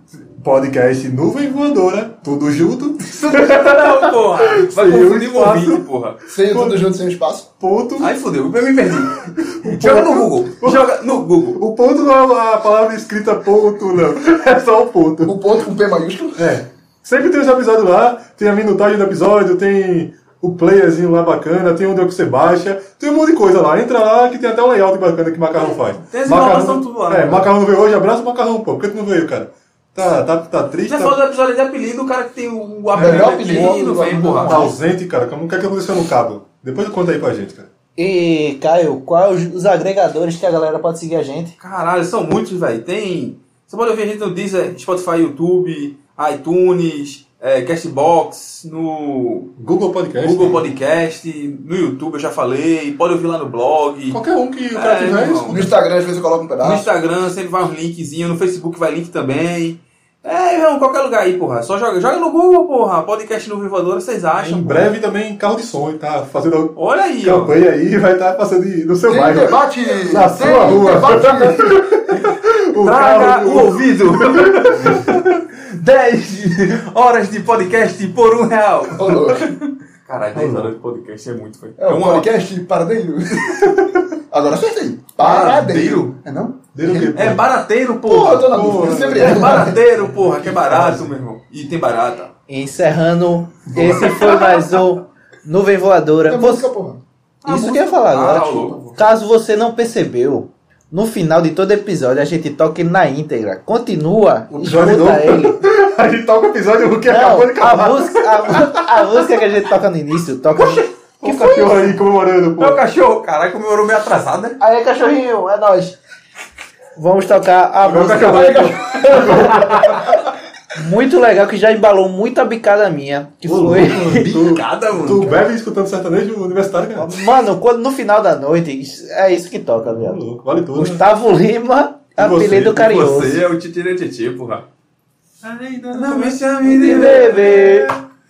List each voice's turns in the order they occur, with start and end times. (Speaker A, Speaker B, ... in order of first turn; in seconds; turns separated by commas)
Speaker A: 0.2-5.8, Speaker B: 3.2-6.2, Speaker C: 6.3-7.5, Speaker A: 6.4-6.8, Speaker A: 7.6-8.1, Speaker B: 8.0-11.6, Speaker A: 9.4-10.9, Speaker A: 11.5-15.4, Speaker C: 15.2-16.5, Speaker A: 16.4-31.2, Speaker B: 26.0-27.5, Speaker B: 30.9-34.6, Speaker A: 32.9-33.2, Speaker C: 33.0-34.5, Speaker D: 33.0-34.8, Speaker A: 34.5-37.7, Speaker D: 38.0-41.5, Speaker B: 41.6-49.5, Speaker A: 49.6-50.6, Speaker B: 50.2-54.2, Speaker A: 54.1-55.7, Speaker B: 54.7-55.7, Speaker C: 55.5-56.9, Speaker B: 56.6-64.9, Speaker A: 64.3-75.4, Speaker B: 66.8-67.6, Speaker C: 69.1-71.8, Speaker B: 72.8-82.3, Speaker C: 79.0-79.5, Speaker A: 80.3-80.7, Speaker C: 81.8-87.2, Speaker B: 85.2-86.1, Speaker A: 86.7-87.4, Speaker B: 87.1-92.3, Speaker C: 88.0-89.8, Speaker A: 88.5-91.1, Speaker D: 92.5-96.7, Speaker B: 93.8-94.8, Speaker C: 96.3-97.0, Speaker B: 97.4-99.0, Speaker D: 97.4-105.6, Speaker A: 104.5-108.8, Speaker D: 107.0-111.7, Speaker B: 110.5-112.0, Speaker A: 111.2-112.8, Speaker B: 112.6-114.6, Speaker D: 114.6-116.0, Speaker D: 117.0-120.0, Speaker A: 117.8-120.2, Speaker B: 117.9-119.6, Speaker C: 119.0-119.5, Speaker D: 120.7-124.3, Speaker A: 123.4-127.2, Speaker B: 124.2-125.4, Speaker D: 127.0-130.2, Speaker A: 130.0-131.0, Speaker D: 130.7-133.4, Speaker A: 132.2-132.8, Speaker B: 132.6-134.6, Speaker A: 135.4-136.4, Speaker B: 135.9-137.8, Speaker D: 136.6-137.9, Speaker A: 137.1-137.6